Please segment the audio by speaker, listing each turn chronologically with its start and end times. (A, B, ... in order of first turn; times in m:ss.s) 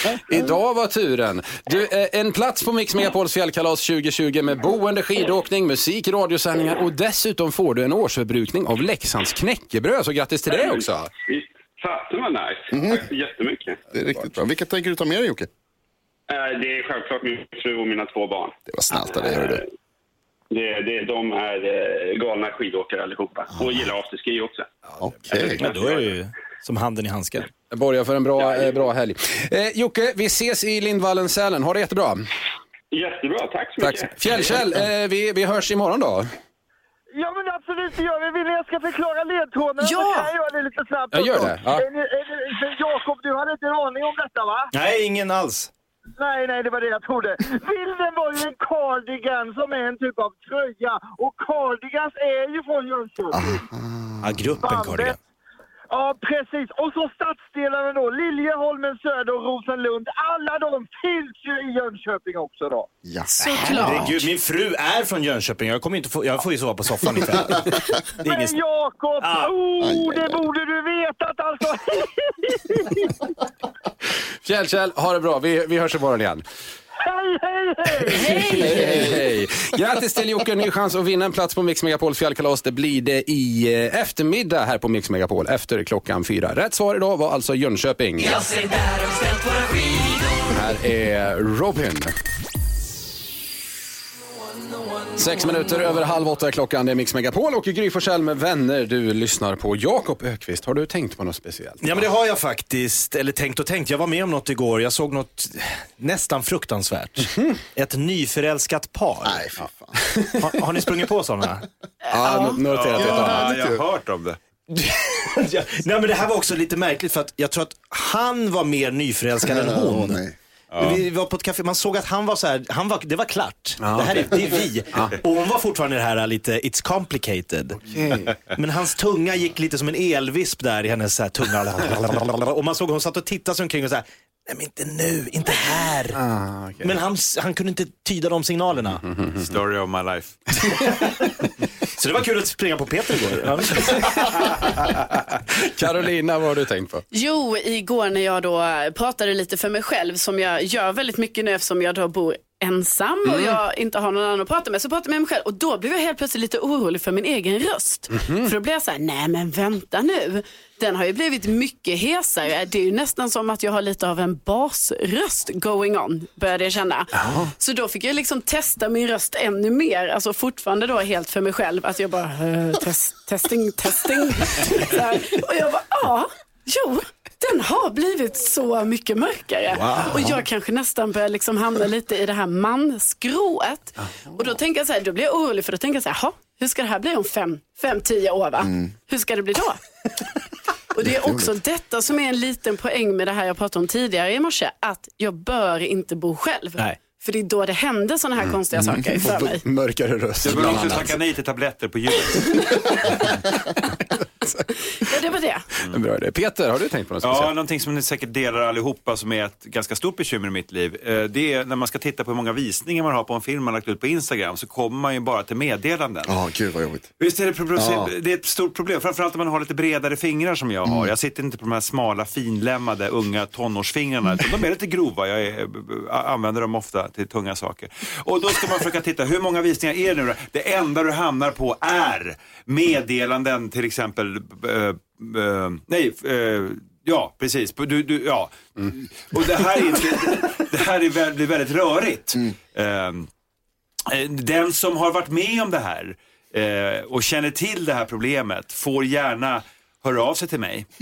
0:00.3-0:11.1 A
0:10.5-0:13.8 B
0:12.7-0:13.0 C
0:13.9-0:15.5 C
0:16.3-0:19.6 B
0:18.7-0:19.6 C
0:20.5-0:24.7 B
0:25.0-0:25.6 C
0:25.6-0:27.5 D
0:25.6-0:26.1 B
0:27.7-0:32.2 A
0:28.4-0:28.7 B
0:32.9-0:34.6 B
0:33.8-0:36.3 A
0:37.2-0:44.6 E
0:39.8-0:40.3 F
0:41.1-0:41.8 A
0:44.7-0:45.7 D
0:46.2-0:53.6 E
0:53.3-0:54.6 C
0:54.2-0:55.2 D
0:54.6-0:55.1 E
0:55.9-1:02.8 E
1:03.0-1:04.1 C
1:03.4-1:04.3 F
1:03.4-1:08.6 D
1:08.2-1:13.1 E
1:09.2-1:09.5 D
1:09.8-1:10.4 C
1:14.4-1:16.4 A
1:17.0-1:18.6 E
1:18.1-1:28.4 A
1:18.2-1:18.7 F
1:18.5-1:19.1 C
1:28.2-1:30.5 G
1:30.5-1:32.1 A
1:35.2-1:42.0 A
1:41.8-1:49.5 D
1:47.2-1:47.6 A
1:49.2-1:50.0 C
1:49.6-1:50.4 A
1:50.4-1:51.6 D
1:52.1-1:53.5 A
1:52.1-1:52.6 F
1:52.7-1:54.4 H
1:53.0-1:53.8 C
1:54.7-2:00.2 D
1:59.4-2:00.3 C
2:00.7-2:01.0 H
2:00.8-2:07.8 D
2:03.8-2:05.1 A
2:07.7-2:08.4 A
2:08.5-2:16.2 D
2:16.2-2:17.0 A
2:16.8-2:19.0 D
2:19.0-2:19.5 A
2:19.4-2:20.4 H
2:22.0-2:24.7 D
2:25.0-2:27.0 A
2:27.1-3:09.8 F
2:33.2-2:33.6 A
2:38.1-2:38.5 A
2:47.2-2:47.5 A
2:59.7-3:00.4 D
3:10.9-3:19.6 F
3:11.0-3:11.5 C
3:19.2-3:21.2 A
3:20.4-3:22.7 H
3:22.4-3:23.3 A
3:24.5-3:25.1 A
3:25.0-3:25.6 F
3:25.8-3:27.5 A
3:27.2-3:36.4 H
3:36.2-3:37.1 C
3:37.2-4:03.3 H
3:37.8-3:38.1 C
4:04.1-4:10.8 H